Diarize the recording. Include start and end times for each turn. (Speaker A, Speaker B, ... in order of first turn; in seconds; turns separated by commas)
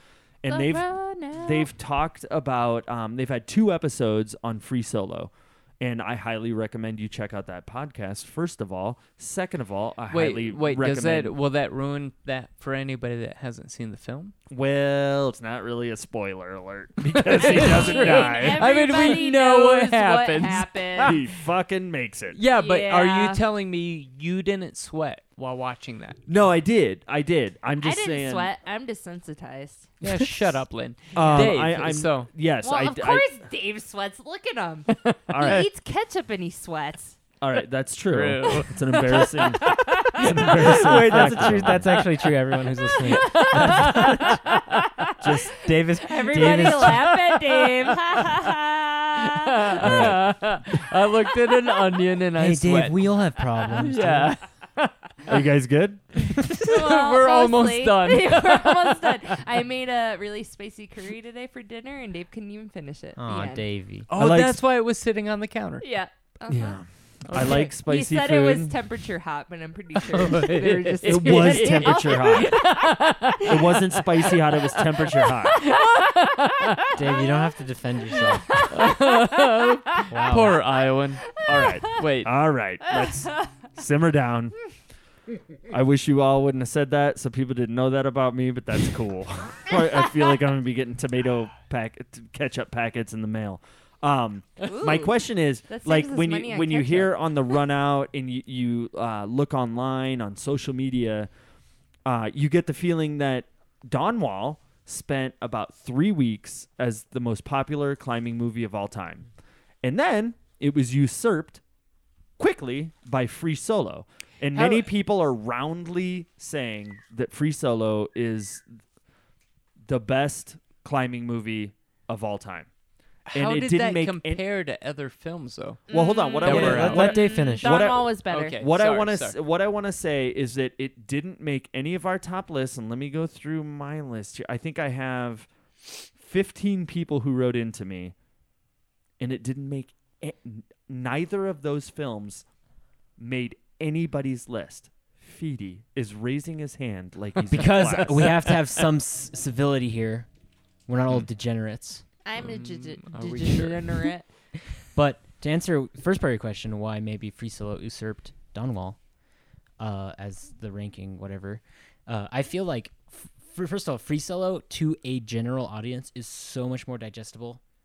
Speaker A: 0.4-11.3, Speaker B: 0.5-1.7, Speaker C: 10.1-14.3, Speaker A: 14.5-19.2, Speaker C: 17.1-21.2, Speaker B: 17.4-21.2, Speaker A: 21.0-22.4, Speaker C: 22.3-26.2, Speaker B: 22.5-23.4, Speaker A: 26.3-28.5, Speaker B: 27.8-30.0, Speaker C: 30.0-32.3, Speaker A: 31.1-33.2, Speaker B: 32.6-37.2, Speaker C: 34.9-35.6, Speaker A: 35.3-35.7, Speaker A: 37.4-42.0, Speaker C: 38.1-42.3, Speaker D: 40.4-44.4, Speaker C: 42.9-44.9, Speaker B: 43.0-44.1, Speaker A: 45.2-45.7, Speaker B: 45.2-45.5, Speaker D: 45.3-47.0, Speaker B: 46.0-49.9, Speaker C: 46.2-48.2, Speaker C: 49.3-53.1, Speaker A: 49.8-50.4, Speaker D: 52.4-54.3, Speaker C: 53.7-55.4, Speaker A: 55.3-56.0, Speaker C: 56.2-59.4, Speaker B: 56.6-63.6, Speaker D: 63.2-64.1, Speaker C: 64.1-65.8, Speaker A: 64.1-64.6, Speaker B: 65.8-66.8, Speaker A: 66.5-68.8, Speaker C: 67.3-67.7, Speaker B: 67.3-72.8, Speaker C: 70.1-74.0, Speaker A: 71.0-72.6, Speaker A: 73.4-75.6, Speaker C: 75.5-77.0, Speaker D: 76.9-78.5, Speaker B: 77.0-77.5, Speaker B: 78.1-80.0, Speaker C: 78.7-82.3, Speaker D: 80.1-80.6, Speaker B: 81.3-81.9, Speaker A: 81.4-84.6, Speaker A: 85.7-101.3, Speaker B: 94.7-95.2, Speaker B: 95.7-97.2, Speaker A: 102.1-109.3, Speaker A: 109.8-111.6, Speaker A: 112.4-118.8, Speaker C: 114.5-114.9, Speaker A: 119.8-122.7, Speaker C: 123.3-125.8, Speaker A: 123.3-124.4, Speaker B: 125.9-128.5, Speaker A: 125.9-135.5, Speaker C: 126.3-127.2, Speaker D: 126.4-127.8, Speaker C: 128.3-129.4, Speaker A: 136.2-138.2, Speaker A: 139.2-142.4, Speaker A: 143.2-148.6, Speaker D: 147.5-150.3, Speaker D: 150.9-152.0, Speaker B: 152.2-154.3, Speaker C: 152.3-154.1, Speaker D: 154.9-159.0, Speaker D: 159.8-167.6